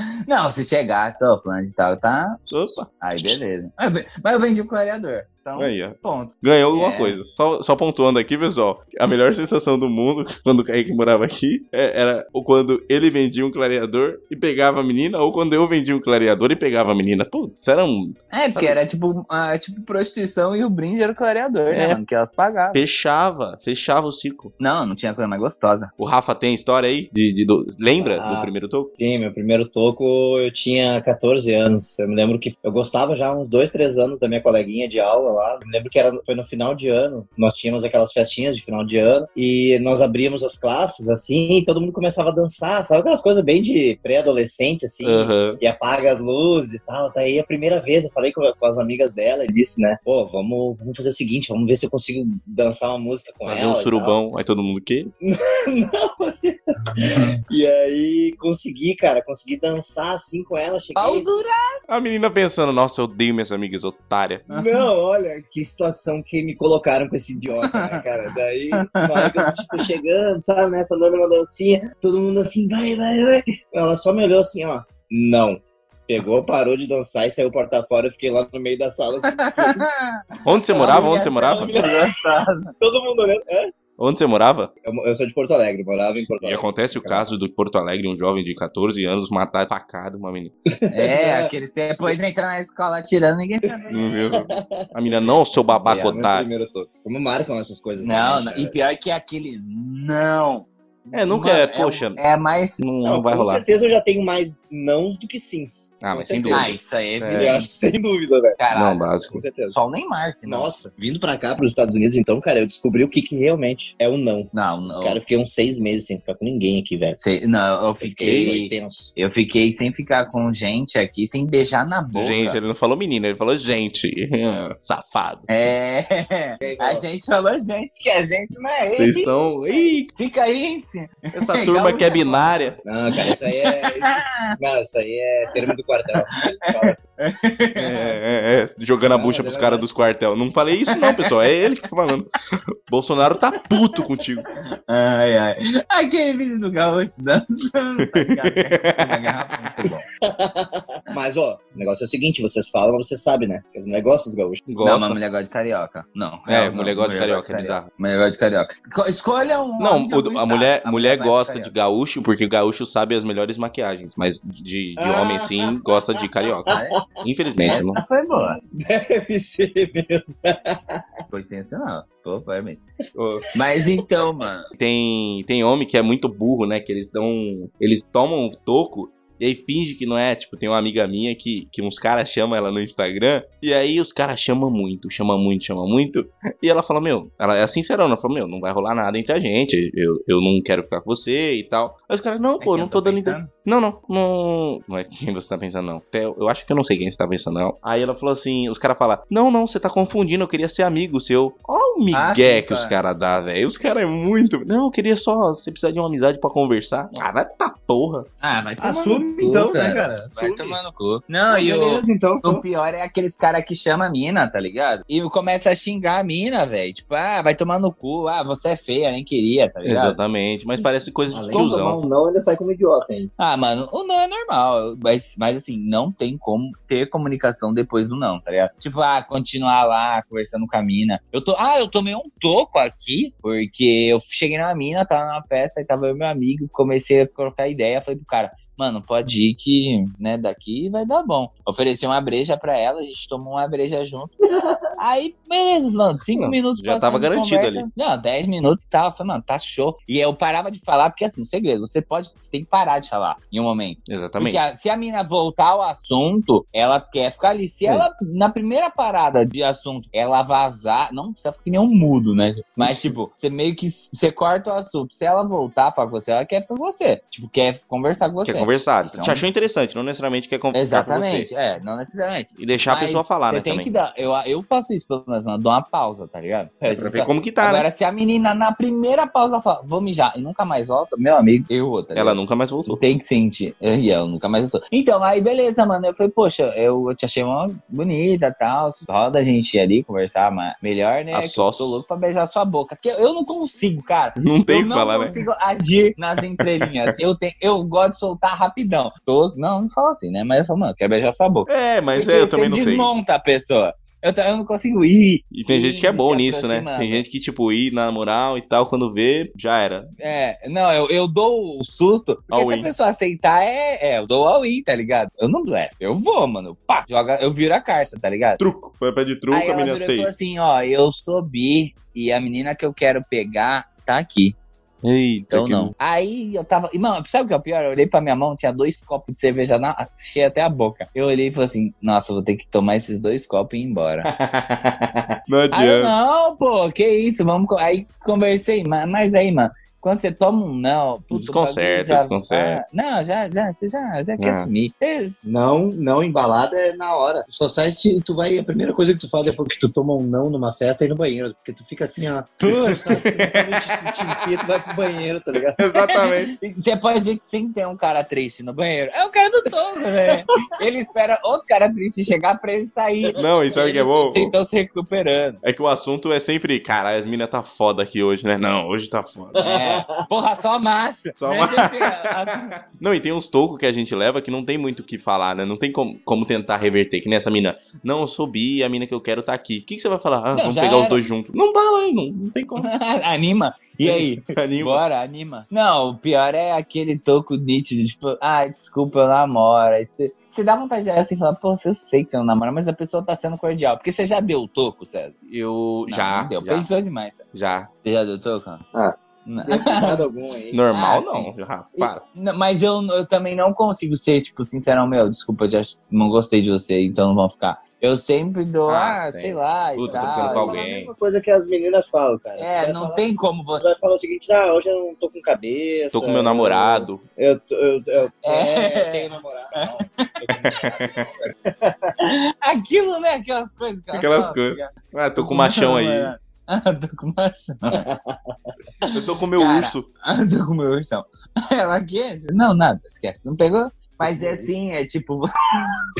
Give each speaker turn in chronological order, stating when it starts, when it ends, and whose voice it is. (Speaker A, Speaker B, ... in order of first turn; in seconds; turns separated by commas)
Speaker A: 0.3-2.4, Speaker B: 2.5-3.4, Speaker A: 3.0-7.2, Speaker B: 5.6-18.8, Speaker A: 18.3-22.8, Speaker B: 21.7-22.0, Speaker B: 22.7-24.5, Speaker A: 24.6-25.9, Speaker B: 26.0-28.9, Speaker C: 28.0-54.2, Speaker B: 45.0-45.6, Speaker B: 53.5-55.1, Speaker C: 55.2-61.3, Speaker A: 61.0-61.8, Speaker B: 61.9-64.4, Speaker C: 64.5-79.8, Speaker A: 64.5-64.8, Speaker A: 67.6-68.0, Speaker A: 68.8-69.8, Speaker A: 79.3-80.2, Speaker B: 80.4-81.7, Speaker C: 80.7-82.1, Speaker A: 80.7-82.7, Speaker C: 82.8-83.7, Speaker B: 84.0-84.7, Speaker C: 84.8-87.2, Speaker B: 86.4-90.5, Speaker C: 90.7-91.5, Speaker A: 90.9-93.9, Speaker C: 93.7-98.8, Speaker B: 93.9-96.5, Speaker A: 95.8-96.2, Speaker A: 98.0-102.8, Speaker B: 101.1-102.2, Speaker B: 102.8-103.6, Speaker C: 103.0-106.8, Speaker B: 106.0-107.5, Speaker A: 106.5-107.7, Speaker C: 107.3-108.6, Speaker A: 108.6-110.7, Speaker B: 108.7-109.4, Speaker C: 109.3-109.8, Speaker C: 110.4-117.2, Speaker A: 114.5-115.2, Speaker A: 117.2-122.6, Speaker C: 118.0-119.1, Speaker B: 118.2-118.6, Speaker B: 122.1-125.5, Speaker A: 125.5-134.5, Speaker C: 126.6-127.0, Speaker B: 129.0-130.1, Speaker B: 131.3-132.8, Speaker C: 132.8-137.0, Speaker A: 136.6-138.2, Speaker B: 137.8-142.4, Speaker C: 139.1-139.9, Speaker A: 140.9-141.3, Speaker B: 142.9-144.4, Speaker A: 144.9-150.1, Speaker B: 148.1-149.7, Speaker C: 150.2-154.6, Speaker B: 154.7-155.2, Speaker A: 154.8-161.7, Speaker B: 156.5-157.9, Speaker B: 159.8-168.0, Speaker C: 165.0-165.7, Speaker A: 166.7-167.0, Speaker A: 167.6-168.6, Speaker C: 168.6-171.0, Speaker A: 171.3-172.8, Speaker B: 173.1-173.4, Speaker A: 173.5-174.7, Speaker B: 174.7-208.3, Speaker A: 192.6-193.5, Speaker A: 202.1-202.9, Speaker A: 208.4-220.2, Speaker C: 208.8-210.8, Speaker C: 211.5-212.6, Speaker B: 219.8-222.0, Speaker C: 221.3-223.3, Speaker A: 223.4-244.3, Speaker A: 245.0-269.4, Speaker B: 246.3-247.8, Speaker B: 254.1-254.6, Speaker B: 268.4-271.5, Speaker A: 270.7-307.2, Speaker B: 272.6-273.9, Speaker B: 276.9-277.9, Speaker B: 282.1-283.0, Speaker B: 291.3-292.0, Speaker B: 294.4-295.4, Speaker B: 296.6-297.1, Speaker B: 301.7-303.1, Speaker B: 305.5-310.1, Speaker A: 310.2-318.6, Speaker B: 312.5-312.9, Speaker B: 318.6-320.4, Speaker A: 319.5-324.6, Speaker B: 325.0-325.9, Speaker A: 325.5-334.3, Speaker B: 334.2-336.1, Speaker A: 335.7-345.4, Speaker B: 341.3-342.8, Speaker B: 344.4-344.7, Speaker C: 345.4-355.9, Speaker A: 352.6-353.3, Speaker B: 353.2-354.4, Speaker B: 355.8-356.6, Speaker A: 356.1-365.6, Speaker B: 363.4-364.5, Speaker B: 365.6-369.7, Speaker C: 369.5-370.2, Speaker A: 369.6-372.7, Speaker B: 371.4-382.9, Speaker A: 380.5-381.2, Speaker A: 382.8-395.4, Speaker B: 384.0-385.0, Speaker B: 395.5-396.9, Speaker A: 396.1-397.4, Speaker B: 397.5-397.9, Speaker A: 398.0-398.8, Speaker C: 398.9-400.8, Speaker A: 399.4-400.2, Speaker B: 400.7-402.2, Speaker A: 400.9-410.8, Speaker B: 408.9-411.1, Speaker C: 410.1-413.2, Speaker A: 412.6-413.8, Speaker C: 413.8-422.1, Speaker B: 416.1-417.2, Speaker A: 418.4-419.3, Speaker B: 420.6-421.3, Speaker A: 422.2-428.1, Speaker B: 424.1-426.3, Speaker C: 428.0-428.5, Speaker A: 429.0-435.9, Speaker B: 429.1-430.1, Speaker C: 434.2-434.7